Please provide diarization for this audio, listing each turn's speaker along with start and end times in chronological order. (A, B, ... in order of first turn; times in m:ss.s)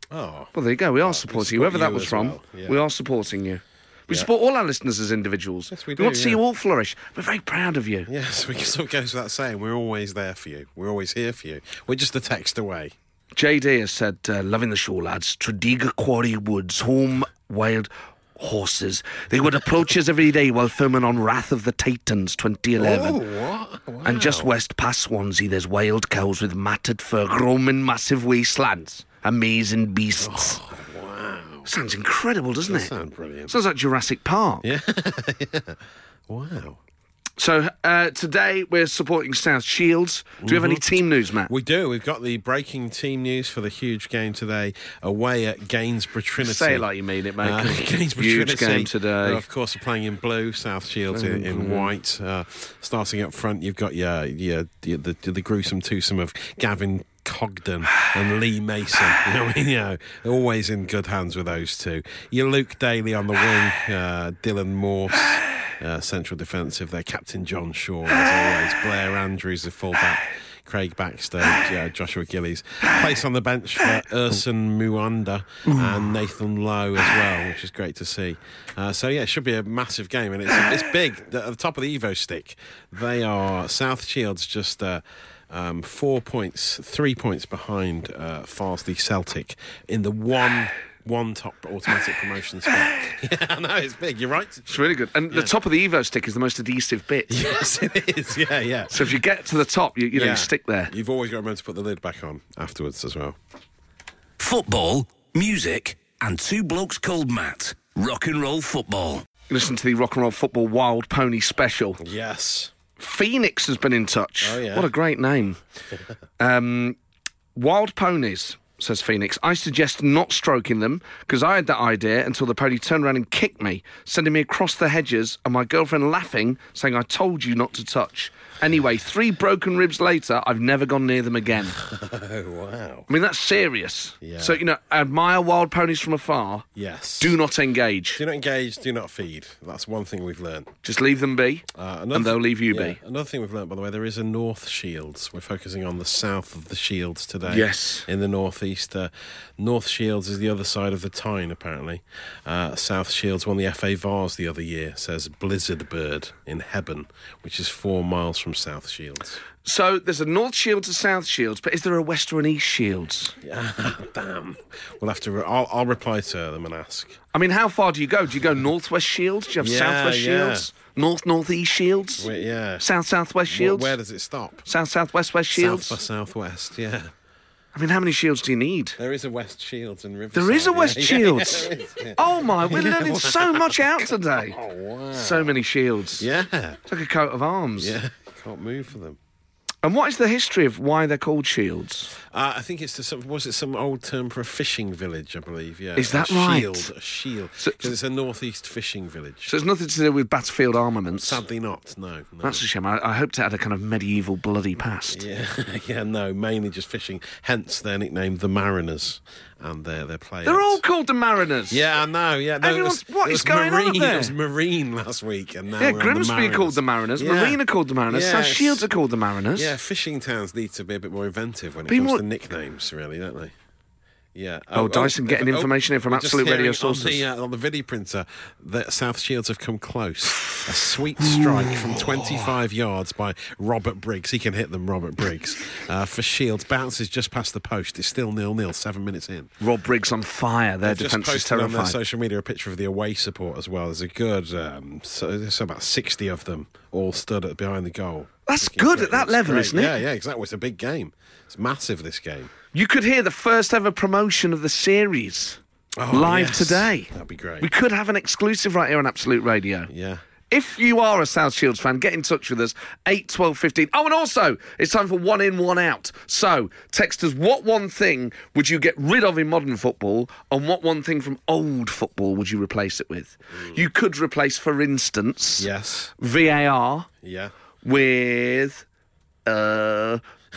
0:00.1-0:02.8 A
0:00.5-0:08.1 B
0:05.7-0:06.4 A
0:08.1-0:12.9 A
0:13.3-0:23.2 B
0:22.8-0:24.5 A
0:24.0-0:30.6 B
0:30.2-0:31.7 A
0:31.6-0:32.9 B
0:32.6-0:33.5 A
0:33.5-0:34.6 B
0:34.6-0:36.8 A
0:37.4-0:41.5 B
0:40.4-0:46.9 A
0:46.4-0:49.4 B
0:47.4-1:35.5 A
0:51.1-0:51.9 B
1:34.7-1:37.4 B
1:37.3-1:39.2 A
1:38.9-1:40.9 B
1:40.1-1:43.4 A
1:44.4-1:49.2 C
1:49.5-1:52.0 B
1:52.0-1:52.7 A
1:53.0-1:55.6 B
1:54.4-1:54.9 A
1:56.4-1:57.0 B
1:57.5-2:11.8 B
2:11.8-2:13.1 A
2:13.1-2:16.6 B
2:14.2-2:14.6 A
2:16.7-2:17.4 A
2:17.2-2:18.2 B
2:18.2-2:20.7 A
2:20.8-2:23.0 B
2:21.7-2:39.4 A
2:27.4-2:28.1 B
2:39.6-2:43.3 B
2:43.4-2:47.2 A
2:47.3-2:52.3 B
2:49.6-2:50.7 A
2:52.2-2:52.9 A
2:52.8-2:53.9 B
2:53.5-2:54.6 A
2:54.6-2:56.0 B
2:55.5-2:57.1 A
2:57.7-2:59.0 B
2:59.0-3:05.6 A
3:00.3-3:04.6 B
3:05.1-3:06.2 B
3:06.2-3:06.8 A
3:06.9-3:07.9 B
3:07.8-3:09.2 A
3:09.8-3:12.1 B
3:12.2-3:19.5 A
3:16.0-3:16.9 B
3:17.6-3:17.9 B
3:19.5-3:21.4 B
3:21.1-3:22.6 A
3:22.4-3:25.2 B
3:25.1-3:30.8 A
3:30.4-3:31.8 B
3:31.7-3:38.9 A
3:32.6-3:34.3 B
3:35.8-3:39.7 B
3:39.5-3:43.5 A
3:41.9-3:42.2 B
3:44.3-3:59.5 A
3:44.7-3:47.2 B
3:51.2-3:52.5 B
3:59.6-4:02.0 B
4:00.8-4:12.5 A
4:08.4-4:10.0 B
4:12.7-4:15.6 B
4:16.0-4:17.7 A
4:16.1-4:19.9 B
4:19.9-4:20.2 A
4:20.5-4:37.1 B
4:35.6-4:36.1 A
4:37.2-4:37.5 A
4:37.8-4:38.8 B
4:39.4-4:40.2 B